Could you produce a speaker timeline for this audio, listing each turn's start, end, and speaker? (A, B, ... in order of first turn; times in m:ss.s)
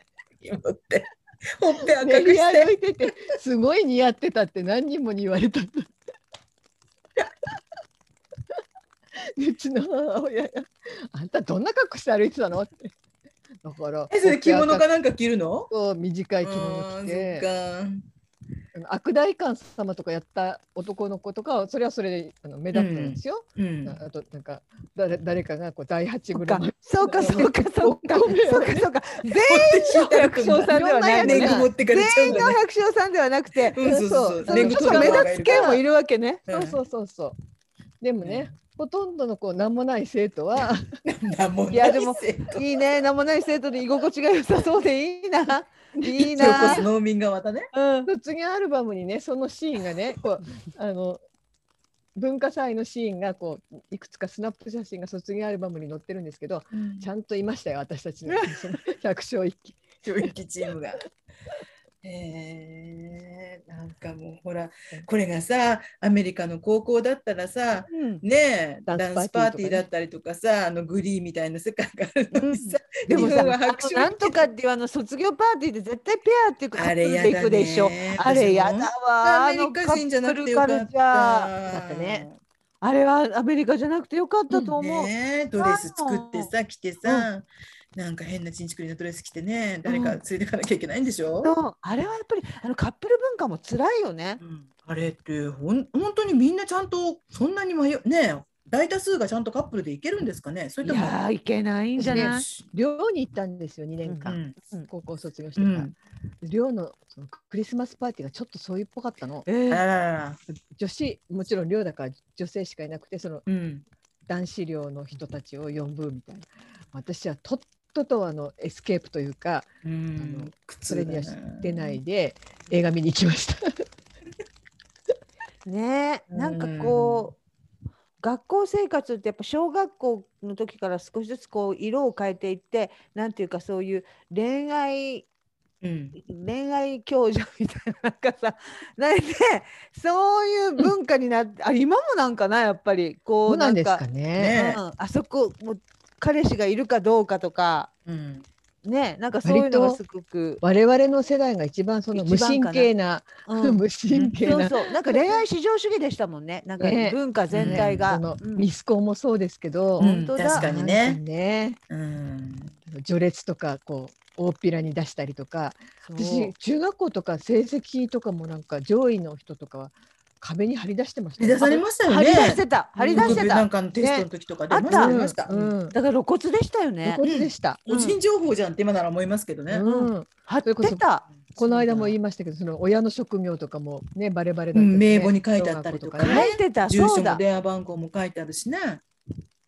0:00.4-0:03.2 A
0:02.0-0:05.9 B
0:09.2-0:12.9 B
0:13.6-0:14.9 B
0:14.1-0:15.7 A
0:15.7-0:17.5 B
0:16.4-0:18.1 A
0:18.8-0:28.9 B
0:22.7-0:24.0 A
0:26.3-0:33.8 C
0:29.4-0:32.6 A
0:30.7-0:31.7 B
0:33.6-0:35.8 A
0:33.8-0:35.8 B
0:34.5-0:36.4 C
0:36.5-0:36.8 A
0:36.5-0:37.4 B
0:38.0-0:41.0 B
0:38.2-0:38.5 A
0:41.0-0:42.6 A
0:41.7-0:46.9 C
0:46.0-0:46.8 B
0:46.2-0:47.7 A
0:47.7-0:48.1 C
0:48.1-0:51.2 B
0:52.2-1:00.0 B
0:56.7-0:57.1 A
1:00.0-1:01.0 A
1:02.0-1:14.5 A
1:07.9-1:08.2 C
1:08.9-1:09.8 B
1:12.3-1:22.3 C
1:16.7-1:22.4 A
1:22.8-1:26.5 C
1:24.5-1:31.5 A
1:29.9-1:30.2 C
1:31.4-1:34.4 C
1:34.4-1:41.2 A
1:40.8-1:42.5 C
1:42.0-1:49.5 B
1:42.0-1:42.6 A
1:44.1-1:44.9 C
1:44.3-1:44.6 A
1:45.6-1:45.9 A
1:49.5-1:49.8 C
1:49.7-1:50.4 A
1:50.5-1:53.4 B
1:53.5-1:53.8 A
1:54.3-2:03.8 B
1:59.8-2:02.0 A
2:05.7-2:07.4 C
2:06.3-2:07.3 A
2:08.2-2:15.3 C
2:15.8-2:16.2 A
2:16.2-2:24.0 C
2:23.4-2:24.5 B
2:24.4-2:24.8 A
2:24.6-2:27.9 C
2:28.1-2:28.5 A
2:28.8-2:30.6 C
2:29.4-2:30.0 B
2:30.6-2:35.3 B
2:32.1-2:32.9 C
2:33.5-2:33.8 C
2:34.1-2:34.5 A
2:34.4-2:38.7 C
2:36.8-2:41.8 B
2:37.5-2:38.1 A
2:40.0-2:40.7 C
2:40.0-2:41.2 A
2:41.9-2:42.7 A
2:42.9-2:51.8 B
2:46.0-2:46.5 C
2:51.4-2:55.8 A
2:52.1-2:55.2 C
2:53.0-2:53.5 B
2:54.9-2:56.0 B
2:55.9-2:57.2 C
2:57.0-2:57.8 B
2:57.2-2:59.9 A
2:57.9-2:58.2 C
2:59.7-3:01.0 B
2:59.8-3:01.3 C
3:01.3-3:02.2 A
3:01.6-3:06.5 B
3:04.7-3:09.0 A
3:06.2-3:07.4 C